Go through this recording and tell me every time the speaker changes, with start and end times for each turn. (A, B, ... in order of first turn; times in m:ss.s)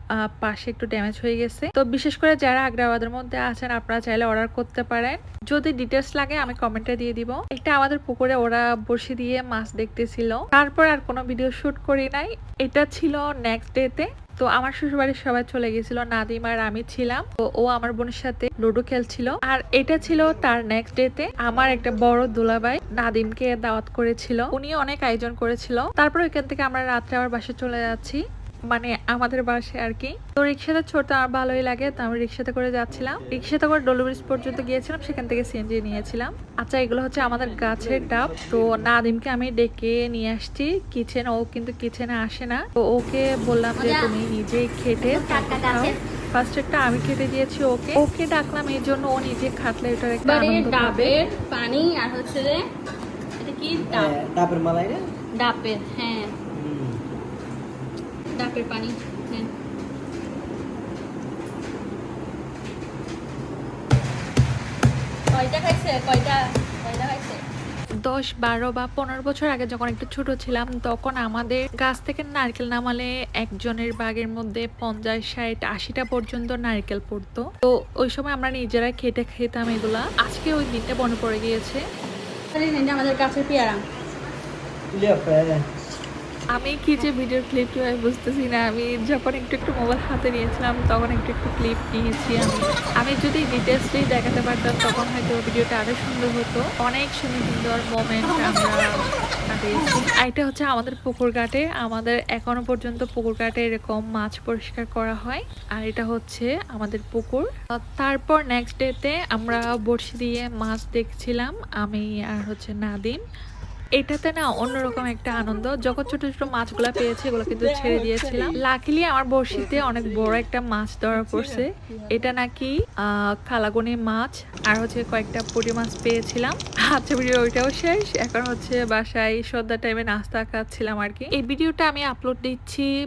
0:00.4-0:51.1 A
0:43.8-0:44.1 B
0:45.1-0:45.9 B
0:50.3-0:52.6 B
0:53.4-0:54.1 B
0:53.8-0:55.0 C
0:55.4-0:56.3 B
0:56.6-0:57.0 C
0:58.4-0:59.5 B
1:05.3-1:07.4 B
1:08.1-1:21.8 A
1:22.6-1:23.8 B
1:24.9-1:25.6 C
1:26.6-1:38.8 A
1:39.5-1:53.2 A
1:54.0-2:02.7 A
1:57.6-1:58.5 B
2:01.9-2:02.2 B
2:03.5-2:12.9 A